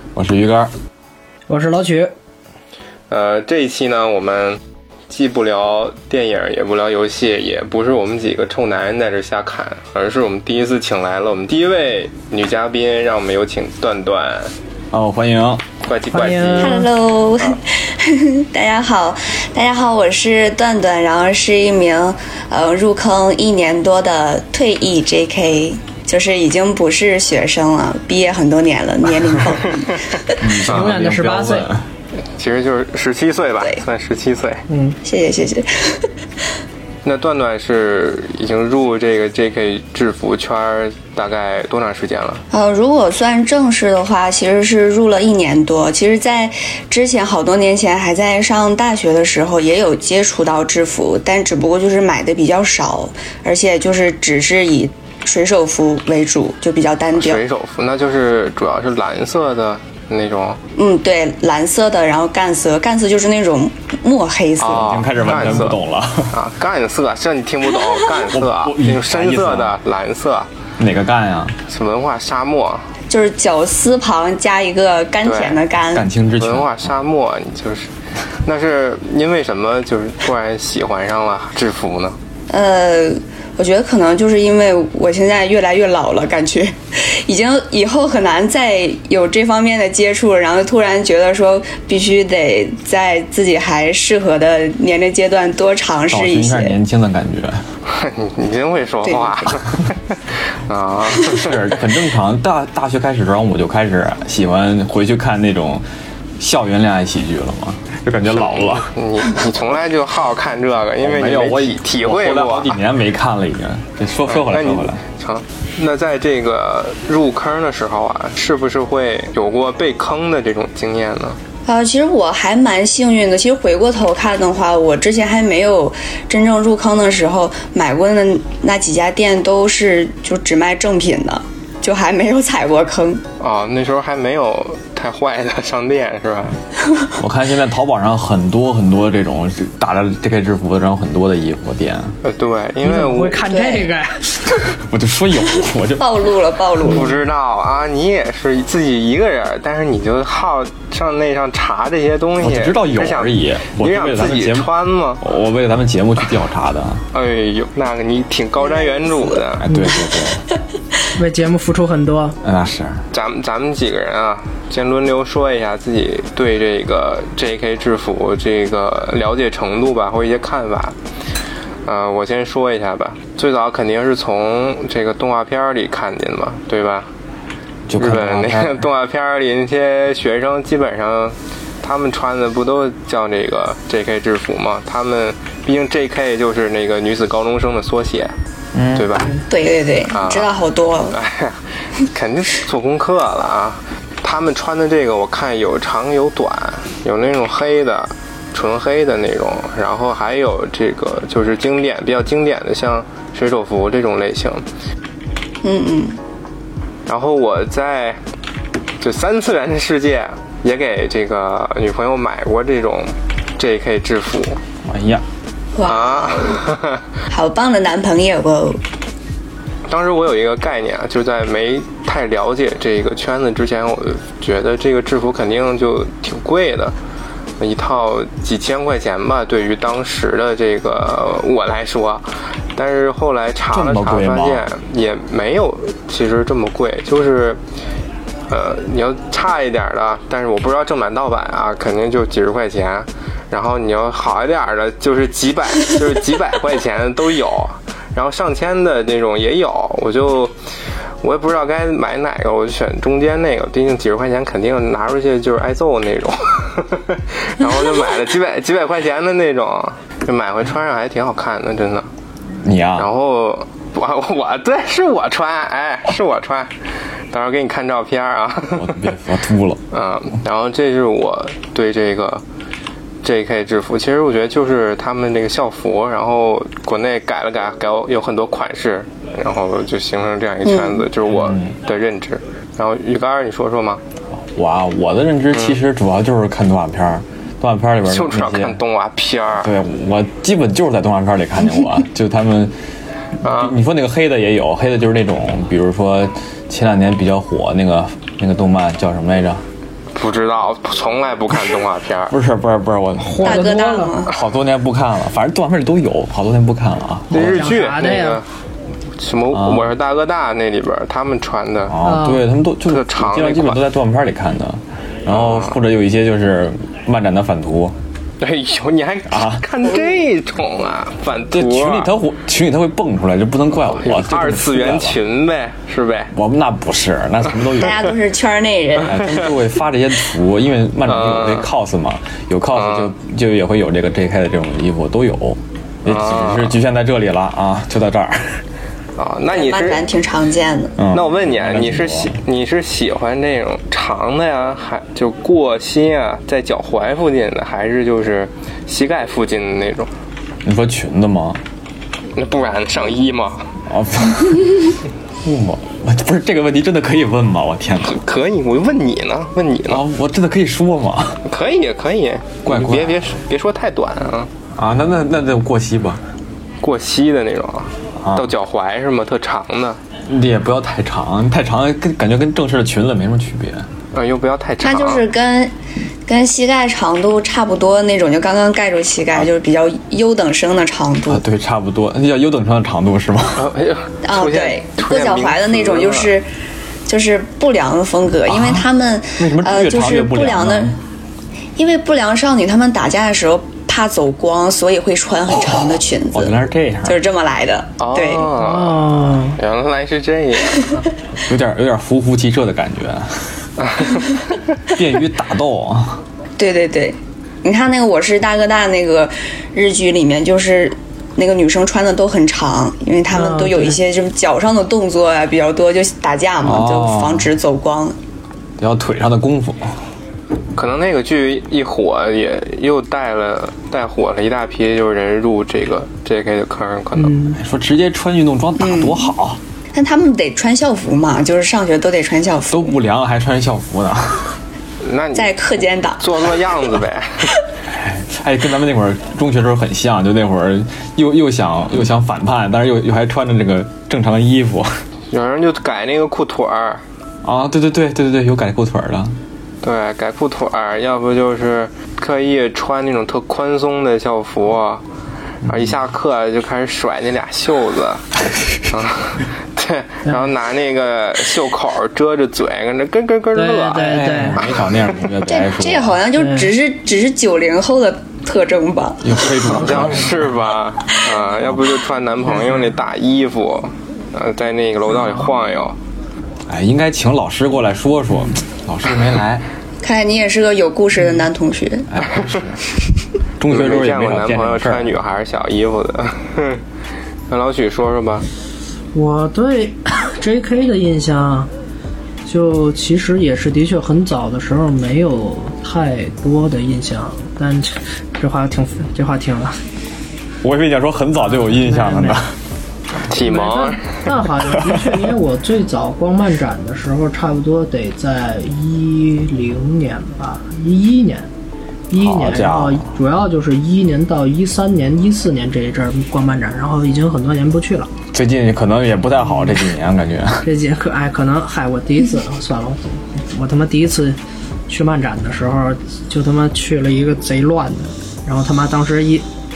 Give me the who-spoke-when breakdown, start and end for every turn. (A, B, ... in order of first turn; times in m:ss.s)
0:00.2-0:00.7 A
0:01.5-0:02.1 B
0:03.1-0:14.5 C
0:14.9-0:15.6 A
0:15.8-0:16.9 C
0:16.1-0:16.9 B
0:16.6-0:30.4 D
0:30.4-0:31.8 A
0:30.6-0:31.7 B
0:30.7-0:31.0 C
0:32.4-0:34.6 C
0:34.7-0:35.0 B
0:35.0-0:36.1 D
0:37.0-0:42.4 C
0:42.5-0:57.4 D
0:57.2-1:00.6 C
1:00.8-1:05.6 D
1:04.6-1:05.8 C
1:04.8-1:06.4 A
1:06.3-1:10.5 C
1:08.3-1:09.8 A
1:10.8-1:11.6 A
1:11.7-1:12.8 C
1:13.1-1:16.1 D
1:15.2-1:15.6 C
1:15.9-1:16.9 A
1:16.4-1:17.9 C
1:18.4-1:22.2 C
1:22.5-1:36.8 D
1:36.1-1:37.6 A
1:37.9-1:41.7 C
1:39.0-1:39.5 D
1:41.1-1:45.8 A
1:46.4-1:48.9 A
1:48.3-1:52.8 C
1:51.0-1:55.0 A
1:54.3-2:01.4 C
2:01.7-2:13.2 D
2:13.4-2:16.6 C
2:17.2-2:22.2 A
2:22.2-2:23.5 C
2:22.8-2:24.5 B
2:23.5-2:23.9 D
2:24.8-2:26.1 A
2:26.0-2:27.2 D
2:26.8-2:35.2 C
2:32.4-2:37.0 A
2:37.1-2:39.6 C
2:38.6-2:39.4 D
2:39.6-2:40.4 A
2:39.7-2:40.0 B
2:41.1-2:42.4 B
2:42.4-2:43.0 A
2:43.1-2:51.0 C
2:51.8-2:57.1 C
2:57.9-2:58.8 A
2:58.0-3:08.3 C
3:08.7-3:09.1 A
3:08.9-3:09.4 C
3:09.5-3:11.2 D
3:10.1-3:10.5 C
3:11.1-3:24.6 C
3:25.6-3:26.2 D
3:27.1-3:28.2 C
3:29.0-3:34.6 C
3:34.8-3:35.2 A
3:35.8-3:36.6 D
3:35.8-3:37.0 C
3:37.3-3:38.8 D
3:39.9-3:47.0 C
3:47.6-3:57.6 C
3:53.7-3:54.7 A
3:58.5-4:10.6 C
4:11.2-4:22.1 C
4:22.6-4:23.1 A
4:23.0-4:26.7 C
4:27.3-4:29.0 C
4:28.8-4:29.8 A
4:29.9-4:32.4 C
4:33.2-4:44.0 C
4:40.7-4:41.0 D
4:41.3-4:41.7 A
4:44.4-4:48.8 A
4:45.5-4:45.8 C
4:48.1-4:49.7 C
4:49.6-4:52.7 A
4:53.4-4:53.8 C
4:53.4-4:59.6 A
5:00.2-5:02.4 C
5:02.3-5:03.7 A
5:03.2-5:04.2 B
5:03.4-5:04.3 D
5:04.3-5:07.7 A
5:07.3-5:08.4 C
5:07.4-5:08.4 B
5:09.2-5:12.0 C
5:09.5-5:09.9 A
5:11.9-5:18.0 A
5:12.0-5:12.4 B
5:12.8-5:13.8 C
5:15.3-5:15.8 C
5:18.4-5:22.1 C
5:19.3-5:19.6 A
5:21.5-5:25.2 A
5:23.9-5:26.3 C
5:26.3-5:28.0 A
5:27.8-5:29.3 D
5:29.0-5:38.6 A
5:31.1-5:31.7 C
5:32.8-5:33.1 C
5:36.0-5:36.8 C
5:39.2-5:40.1 C
5:39.5-5:41.0 D
5:41.0-5:42.4 A
5:41.1-5:50.1 C
5:50.6-5:51.6 A
5:52.4-5:53.7 C
5:53.9-5:58.2 A
5:58.1-6:00.0 C
5:59.9-6:01.4 A
6:01.5-6:04.5 C
6:02.6-6:03.4 A
6:04.7-6:06.2 A
6:06.8-6:10.0 C
6:08.2-6:08.5 A
6:10.3-6:13.9 A
6:14.1-6:15.2 C
6:14.8-6:15.7 D
6:16.3-6:21.4 D
6:21.3-6:23.7 A
6:23.6-6:26.3 C
6:24.2-6:26.5 D
6:27.1-6:31.0 D
6:28.5-6:28.8 A
6:29.4-6:31.0 A
6:31.8-6:38.5 D
6:36.3-6:37.2 A
6:38.0-6:41.0 C
6:38.6-6:39.6 B
6:41.5-6:43.7 A
6:43.8-6:44.6 C
6:44.9-6:46.2 A
6:46.6-6:58.2 D
6:53.3-6:54.0 B
6:56.6-6:57.5 A
6:58.8-7:00.0 A
7:00.8-7:07.4 C
7:07.2-7:07.6 B
7:07.5-7:09.6 A
7:08.8-7:09.3 D
7:09.9-7:12.9 D
7:12.7-7:14.6 A
7:15.0-7:15.5 C
7:15.4-7:16.4 D
7:16.2-7:17.6 C
7:17.9-7:24.9 A
7:25.3-7:27.0 C
7:27.4-7:29.3 A
7:29.8-7:35.0 C
7:35.6-7:36.0 A
7:35.6-7:38.3 C
7:38.8-7:44.8 C
7:43.6-7:44.6 B
7:44.0-7:46.2 A
7:45.5-7:49.4 D
7:46.4-7:46.7 B
7:49.2-7:50.5 A
7:49.6-7:56.0 C
7:49.9-7:50.2 B
7:56.7-7:59.6 A
8:00.0-8:02.1 D
8:02.1-8:02.8 A
8:03.6-8:05.1 A
8:03.7-8:06.8 C
8:07.5-8:08.5 C
8:09.1-8:11.7 B
8:12.5-8:19.8 B
8:20.6-8:22.6 A
8:21.5-8:22.4 B
8:23.2-8:31.5 B
8:23.3-8:24.2 C
8:24.9-8:25.2 A
8:32.1-8:38.1 B
8:32.2-8:33.1 A
8:38.3-8:40.7 A
8:40.6-8:49.5 B